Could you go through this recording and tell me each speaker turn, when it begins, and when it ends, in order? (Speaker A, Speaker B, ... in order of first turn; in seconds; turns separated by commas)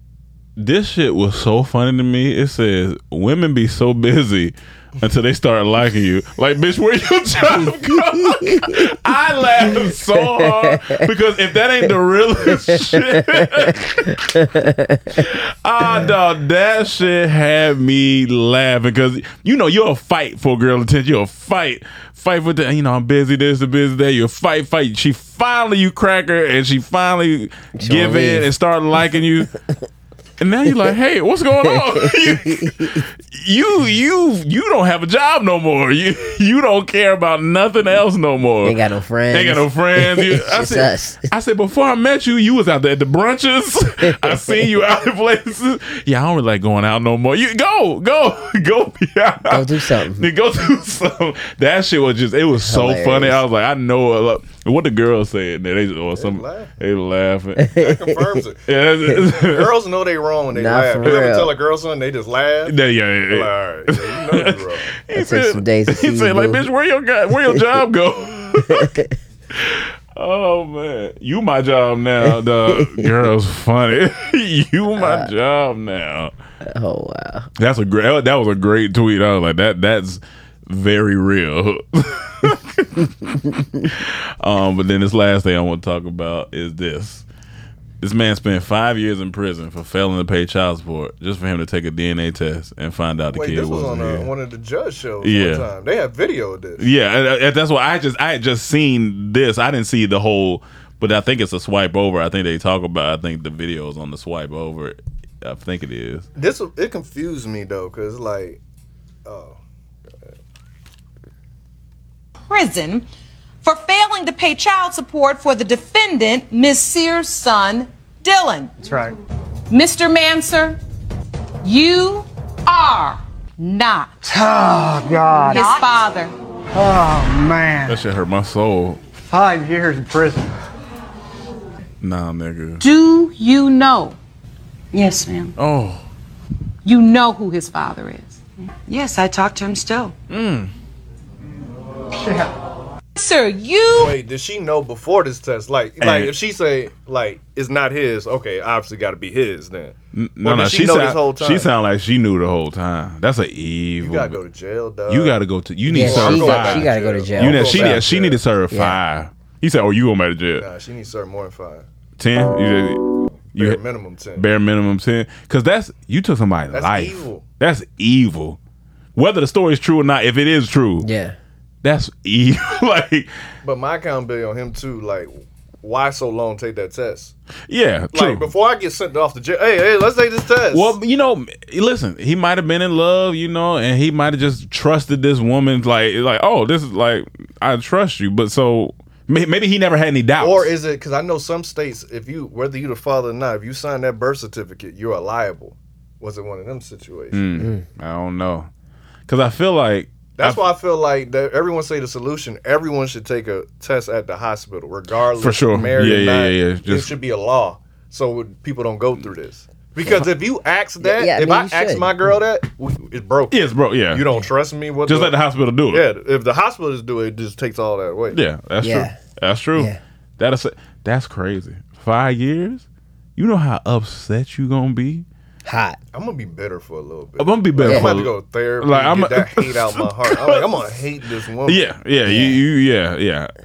Speaker A: 0.6-14.2, Speaker B: 7.6-8.7, Speaker B: 9.6-11.0, Speaker B: 12.4-15.2, Speaker A: 15.2-29.5, Speaker B: 15.8-16.1, Speaker B: 27.8-28.5, Speaker A: 30.4-38.8, Speaker B: 31.7-33.0, Speaker B: 38.6-41.3, Speaker A: 39.3-57.7, Speaker B: 44.0-44.7, Speaker B: 49.5-50.3, Speaker B: 52.6-53.4, Speaker C: 56.1-56.7, Speaker B: 57.6-58.1, Speaker C: 57.8-58.6, Speaker A: 58.7-59.7, Speaker C: 59.3-62.7, Speaker B: 60.5-61.5, Speaker A: 62.7-68.9, Speaker C: 63.3-64.9, Speaker B: 65.1-66.7, Speaker B: 68.7-69.1, Speaker A: 69.5-76.3, Speaker B: 72.3-73.1, Speaker B: 75.0-75.3, Speaker B: 76.7-77.5, Speaker A: 77.6-83.1, Speaker A: 83.8-87.2, Speaker A: 88.0-94.3, Speaker C: 93.3-96.8, Speaker A: 95.2-95.7, Speaker A: 96.8-106.2, Speaker C: 106.3-108.6, Speaker C: 109.2-109.6, Speaker D: 112.4-113.0, Speaker D: 113.6-118.7, Speaker E: 118.8-119.1, Speaker D: 119.7-120.8, Speaker D: 121.6-124.3, Speaker E: 124.3-125.8, Speaker D: 125.4-126.3, Speaker E: 126.7-128.0, Speaker A: 127.9-129.0, Speaker E: 129.2-130.5, Speaker A: 132.0-132.8, Speaker D: 132.8-134.2, Speaker A: 135.6-136.0, Speaker D: 136.8-138.4, Speaker A: 140.3-140.7, Speaker E: 142.2-142.5, Speaker D: 143.2-144.2, Speaker C: 143.9-151.7, Speaker A: 146.0-146.3, Speaker A: 150.1-154.4, Speaker C: 154.0-158.4, Speaker A: 155.1-160.7, Speaker B: 155.9-158.1, Speaker B: 158.7-159.0, Speaker C: 160.6-161.8, Speaker A: 162.2-163.8, Speaker C: 163.5-164.4, Speaker A: 164.3-168.6, Speaker C: 166.7-167.4, Speaker A: 169.1-171.1, Speaker B: 171.0-171.4, Speaker A: 171.8-173.3, Speaker C: 173.6-177.3, Speaker A: 177.7-178.5, Speaker C: 178.1-180.9, Speaker A: 180.7-190.7, Speaker C: 190.4-197.5, Speaker A: 197.3-198.7, Speaker B: 197.6-197.8, Speaker A: 199.3-200.6, Speaker C: 200.4-213.6, Speaker A: 205.4-207.1, Speaker B: 211.0-212.4, Speaker A: 213.5-214.3, Speaker C: 214.1-215.3, Speaker A: 215.1-216.0, Speaker C: 215.9-218.4, Speaker A: 218.3-222.8, Speaker B: 218.8-219.2, Speaker B: 219.7-220.0, Speaker A: 223.4-225.2, Speaker B: 225.7-226.0, Speaker C: 226.1-231.8, Speaker A: 227.4-230.7, Speaker B: 227.8-228.1, Speaker A: 231.7-233.5, Speaker B: 232.2-232.6